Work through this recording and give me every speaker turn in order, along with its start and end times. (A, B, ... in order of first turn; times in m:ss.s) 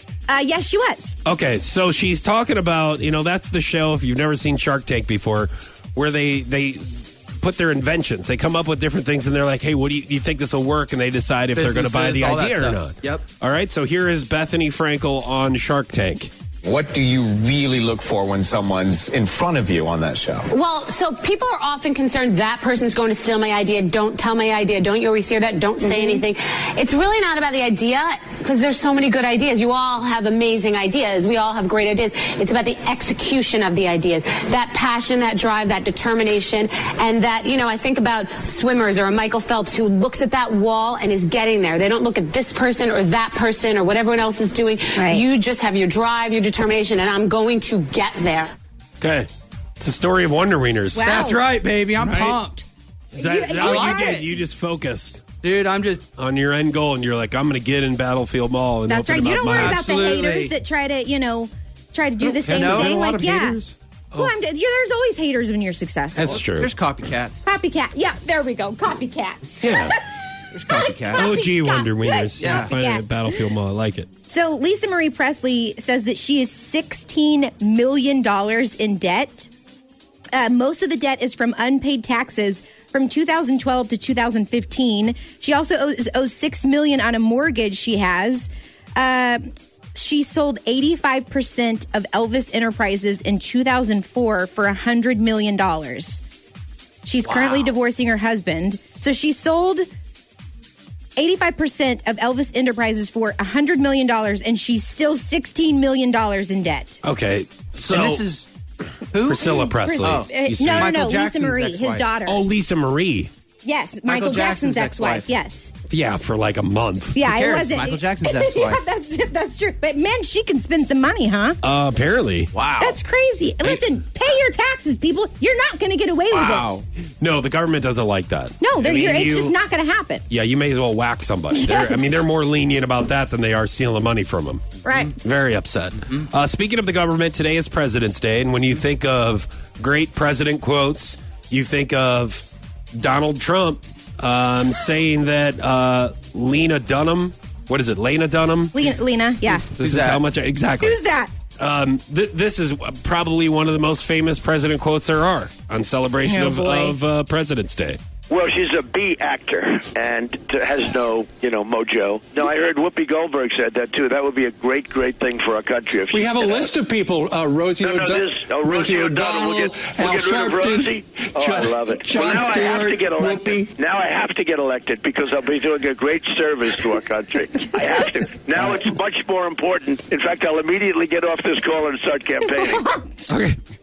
0:00.3-0:01.2 A
0:01.2-0:16.3 B
0:11.5-0:13.2 C
0:16.6-0:20.5 D
0:20.5-0:48.5 E
0:25.8-0:26.2 A
0:45.0-0:45.2 A
0:49.0-0:51.2 B
0:50.9-0:51.4 A
0:51.0-0:52.6 C
0:52.0-0:52.4 B
0:53.2-0:54.2 A
0:53.2-0:55.2 B
0:53.5-0:54.3 C
0:55.4-0:56.0 C
0:56.2-1:00.2 B
0:58.9-1:03.6 A
0:59.5-1:00.5 C
1:02.2-1:04.3 B
1:02.5-1:03.0 C
1:04.1-1:06.3 A
1:06.1-1:06.7 B
1:06.2-1:07.4 C
1:07.4-1:10.1 A
1:09.6-1:09.9 B
1:10.5-1:11.3 C
1:10.7-1:13.4 A
1:11.1-1:14.1 B
1:12.4-1:12.7 C
1:14.3-1:19.5 A
1:20.3-1:36.2 A
1:37.0-1:39.9 A
1:37.2-1:37.6 B
1:41.2-1:47.0 A
1:47.0-1:48.3 B
1:47.9-1:48.5 C
1:49.1-1:52.1 C
1:49.2-1:51.0 B
1:49.6-1:52.4 A
1:52.2-1:53.3 B
1:53.6-1:55.7 A
1:54.0-1:55.3 C
1:55.9-1:57.3 B
1:57.1-2:01.6 A
1:57.2-1:58.8 C
2:01.6-2:02.5 B
2:02.5-2:03.0 C
2:02.8-2:06.7 A
2:06.3-2:06.8 C
2:07.2-2:09.6 B
2:08.6-2:10.2 A
2:10.3-2:28.9 B
2:11.5-2:12.1 A
2:11.7-2:12.0 C
2:14.8-2:15.2 A
2:28.7-2:29.7 A
2:29.5-2:31.0 B
2:29.8-2:30.2 C
2:30.8-2:31.3 A
2:31.6-2:38.0 B
2:36.2-2:37.0 A
2:38.3-2:46.7 F
2:46.1-2:48.2 G
2:47.8-3:03.0 F
2:48.7-2:50.9 G
2:51.4-2:53.7 G
3:03.3-3:03.6 B